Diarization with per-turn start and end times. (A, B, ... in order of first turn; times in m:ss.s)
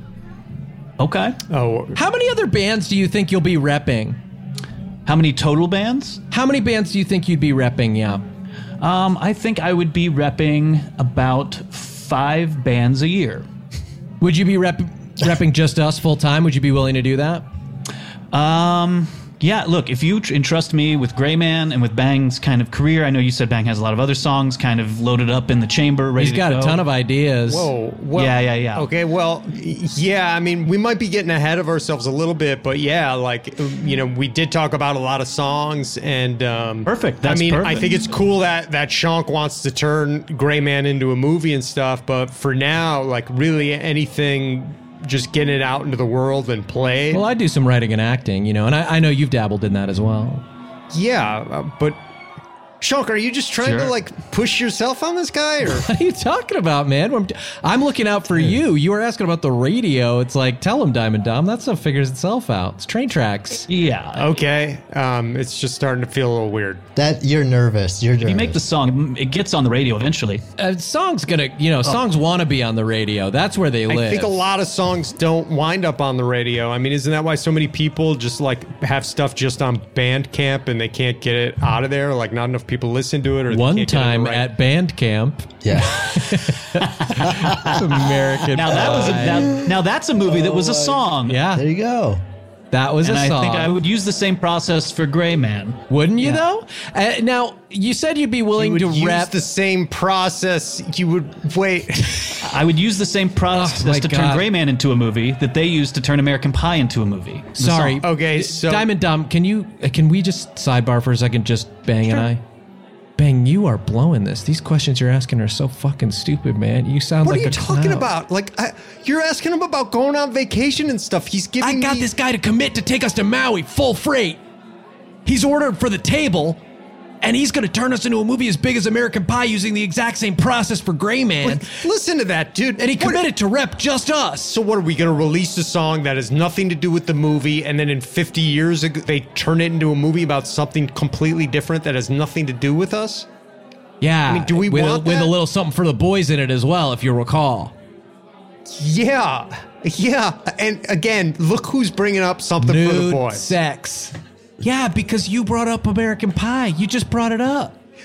0:01.0-0:01.4 A
0:01.5-0:02.0 B
0:01.9-0:04.2 C
0:05.0-0:06.2 A
0:06.3-0:08.2 C
0:08.8-0:13.5 A
0:14.2-0:17.4 C
0:18.3-0:26.8 A
0:26.2-0:27.7 C
0:27.5-0:47.2 B
0:28.1-0:28.9 A
0:36.8-0:37.9 A
0:47.1-0:50.4 C
0:50.9-0:52.0 B
0:52.8-0:55.9 B
0:53.6-0:53.9 A
0:55.7-1:03.7 C
1:03.7-1:04.4 A
1:04.2-1:06.8 B
1:07.0-1:08.6 D
1:08.2-1:10.4 A
1:10.6-1:14.3 C
1:13.9-1:24.5 B
1:23.5-1:29.6 C
1:25.6-1:26.2 D
1:26.8-1:27.8 A
1:27.3-1:27.8 D
1:28.5-1:31.4 A
1:29.1-1:32.2 D
1:31.2-1:31.6 C
1:32.7-1:33.8 C
1:33.0-1:36.4 A
1:35.9-1:39.3 C
1:38.6-1:42.4 B
1:42.4-1:48.0 A
1:43.5-1:44.4 C
1:47.6-1:52.4 C
1:48.0-1:48.9 B
1:53.2-1:58.1 C
1:57.2-2:02.1 B
2:01.6-2:04.4 C
2:05.2-2:06.6 C
2:07.2-2:11.7 C
2:11.4-2:13.2 B
2:12.8-2:14.6 C
2:14.5-2:23.3 B
2:24.0-2:27.7 C
2:24.3-2:25.3 B
2:28.7-2:33.5 B
2:32.6-2:37.7 C